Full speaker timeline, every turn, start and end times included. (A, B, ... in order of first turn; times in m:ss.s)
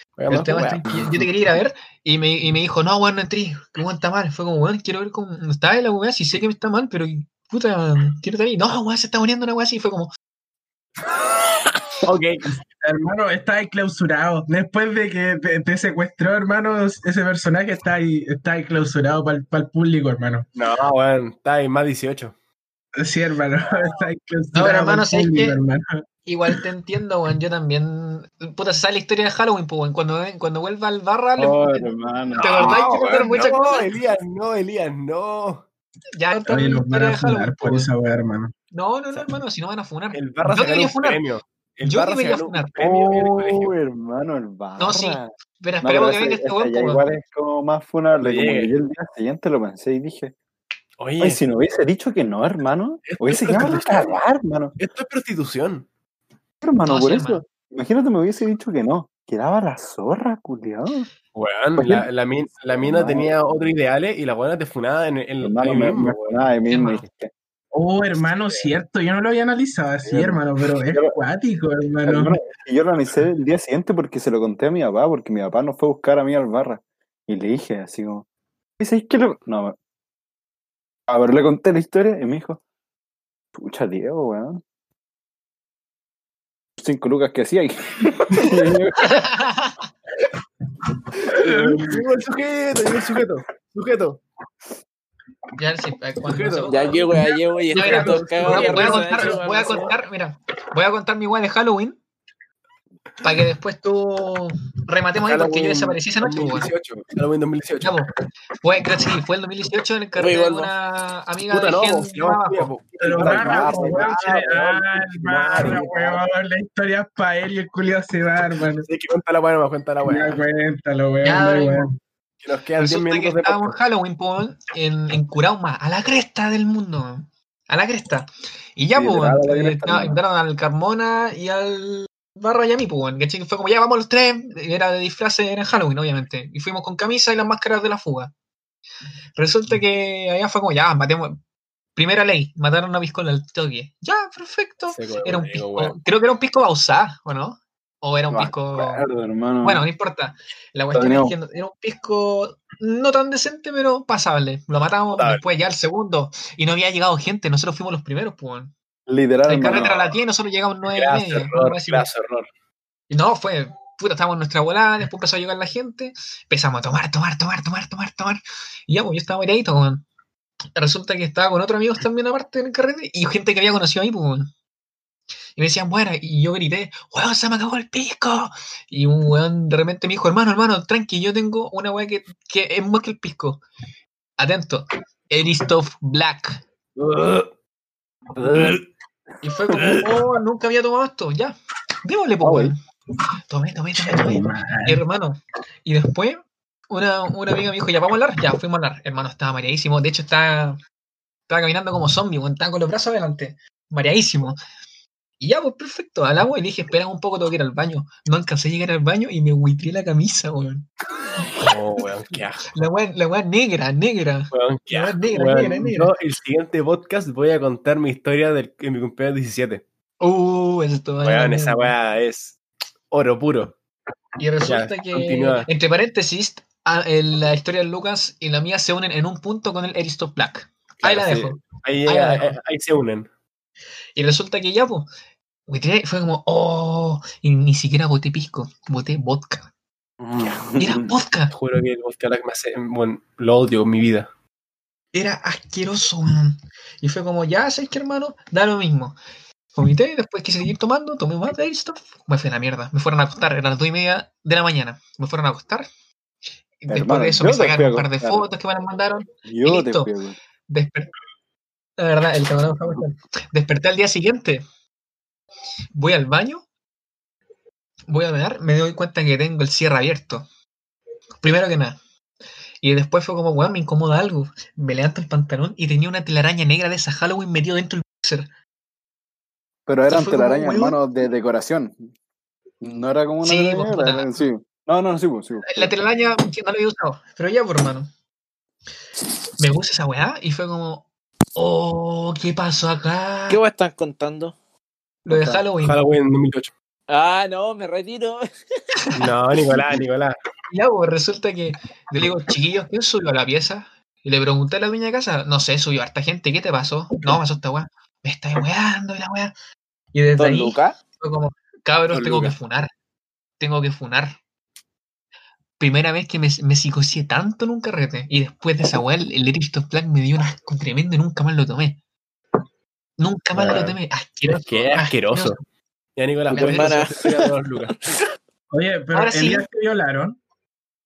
0:00.2-0:00.8 A
0:00.3-0:01.2 B
0:00.3-0:10.1 C
0:12.0-0:12.5 A
0:12.5-0:20.4 D
0:20.5-0:22.3 A
0:23.0-0:25.8 D
0:24.5-0:25.6 C
0:26.2-0:33.9 C
0:31.4-0:32.8 B
0:32.4-0:35.6 A
0:36.2-0:37.9 C
0:36.5-0:38.5 D
0:38.7-0:41.2 C
0:40.1-0:43.7 A
0:41.8-0:42.7 C
0:42.8-0:45.3 B
0:44.8-0:47.0 C
0:45.8-0:50.3 B
0:48.2-0:48.7 A
0:51.0-0:51.4 A
0:51.2-0:54.8 B
0:53.0-0:54.1 A
0:54.8-0:55.9 A
0:56.6-1:01.1 B
0:56.8-0:57.4 C
1:01.3-1:06.2 A
1:01.8-1:02.1 B
1:02.6-1:03.3 B
1:05.4-1:07.3 B
1:06.7-1:07.0 C
1:07.7-1:12.4 D
1:10.0-1:11.2 B
1:12.0-1:18.2 B
1:18.8-1:19.8 B
1:21.1-1:22.6 B
1:23.5-1:24.6 B
1:26.8-1:29.3 B
1:28.4-1:28.6 A
1:29.0-1:29.8 C
1:31.2-1:32.0 D
1:31.3-1:34.2 A
1:35.6-1:37.0 C
1:36.2-1:36.9 A
1:36.7-1:39.9 E
1:37.7-1:39.4 A
1:37.7-1:42.0 C
1:38.4-1:39.4 D
1:43.2-1:46.7 C
1:45.2-1:47.9 A
1:47.8-1:52.7 C
1:50.1-1:50.7 E
1:51.5-1:56.2 A
1:53.0-1:58.9 D
1:53.1-1:54.6 B
1:58.8-2:00.4 A
2:00.0-2:01.9 D
2:01.2-2:01.9 C
2:02.4-2:03.8 A
2:02.8-2:18.3 C
2:08.9-2:10.2 B
2:19.4-2:21.4 C
2:21.9-2:29.0 C
2:24.9-2:26.0 A
2:28.3-2:29.8 B
2:29.6-2:38.7 C
2:30.9-2:31.4 B
2:35.1-2:35.4 A
2:39.1-2:40.1 B
2:39.4-2:42.1 C
2:40.9-2:42.5 A
2:43.1-2:50.0 C
2:50.7-2:54.5 C
2:55.6-3:03.6 C
3:04.4-3:06.6 C
3:07.0-3:07.5 A
3:08.4-3:08.8 A
3:09.4-3:12.8 C
3:09.7-3:10.0 B
3:12.4-3:12.7 B
3:13.5-3:20.8 C
3:14.0-3:15.0 D
3:21.5-3:24.6 C
3:25.4-3:30.9 C
3:31.6-3:32.7 A
3:32.7-3:36.1 C
3:34.5-3:39.8 A
3:40.2-3:41.9 C
3:41.2-3:42.6 A
3:43.1-3:43.7 A
3:44.4-3:52.6 C
3:44.6-3:45.7 A
3:51.0-3:53.3 A
3:54.1-3:55.1 C
3:55.7-3:59.7 C
4:00.2-4:01.1 B
4:00.8-4:01.5 C
4:01.5-4:04.3 A
4:05.1-4:09.2 C
4:09.8-4:15.9 C
4:16.8-4:20.1 C
4:16.9-4:18.4 B
4:19.4-4:20.4 B
4:20.7-4:21.1 C
4:22.0-4:24.6 C
4:25.9-4:26.6 C
4:28.1-4:30.4 C
4:31.4-4:32.0 C
4:32.8-4:38.5 C
4:39.9-4:42.1 B
4:40.1-4:41.0 C
4:42.8-4:45.9 B
4:43.4-4:44.4 C
4:45.6-4:48.1 C
4:49.6-4:53.6 C
4:53.5-4:54.6 E
4:55.2-4:56.0 C
4:55.3-4:55.6 B
4:55.8-4:56.7 A
4:57.1-4:59.0 E
4:59.1-5:00.4 A
5:00.7-5:09.5 C
5:10.1-5:12.9 C
5:10.4-5:11.0 E
5:12.1-5:12.5 A
5:13.6-5:14.4 C
5:15.8-5:22.0 C
5:23.2-5:25.6 C
5:23.6-5:23.9 B
5:24.5-5:25.6 A
5:26.2-5:27.9 A
5:26.5-5:27.9 E
5:28.7-5:30.4 D
5:29.1-5:29.6 C